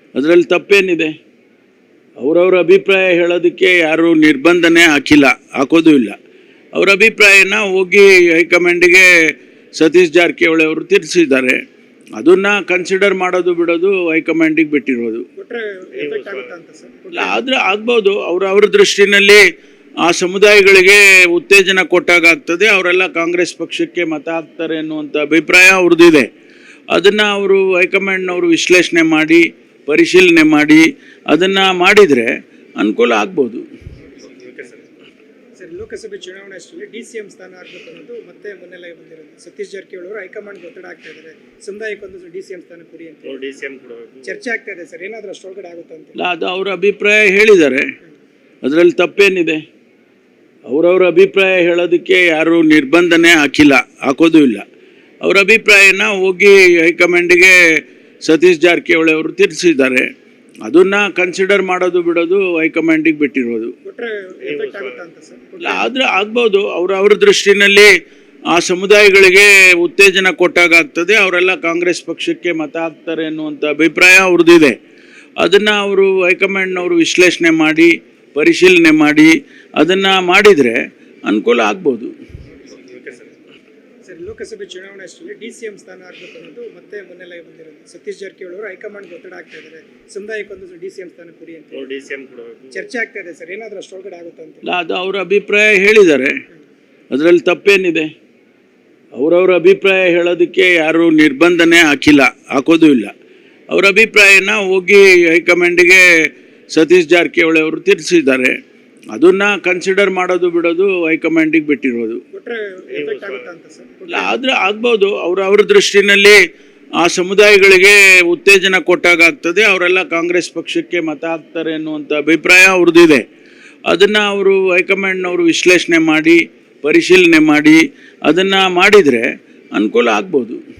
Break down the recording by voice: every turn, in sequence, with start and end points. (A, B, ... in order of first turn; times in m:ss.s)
0:00.2-0:01.2 A
0:02.2-0:06.2 A
0:06.7-0:11.6 A
0:12.2-0:15.3 A
0:15.4-0:17.4 B
0:15.9-0:16.5 C
0:17.1-0:19.4 A
0:20.0-0:26.3 A
0:26.9-0:33.7 A
0:34.2-0:34.9 C
0:35.6-0:43.4 B
0:43.2-0:44.4 C
0:44.2-0:46.2 B
0:46.2-0:47.9 A
0:48.6-0:49.6 A
0:50.7-0:54.7 A
0:55.2-1:00.1 A
1:00.6-1:03.7 A
1:03.8-1:05.9 B
1:04.4-1:05.0 C
1:05.6-1:07.9 A
1:08.5-1:14.8 A
1:15.4-1:22.2 A
1:22.6-1:23.4 C
1:24.0-1:31.9 B
1:31.7-1:32.9 C
1:32.7-1:34.6 B
1:34.6-1:36.4 A
1:37.1-1:38.1 A
1:39.2-1:43.1 A
1:43.7-1:48.6 A
1:49.1-1:52.2 A
1:52.3-1:54.4 B
1:52.9-1:53.4 C
1:54.1-1:56.4 A
1:57.0-2:03.2 A
2:03.9-2:10.6 A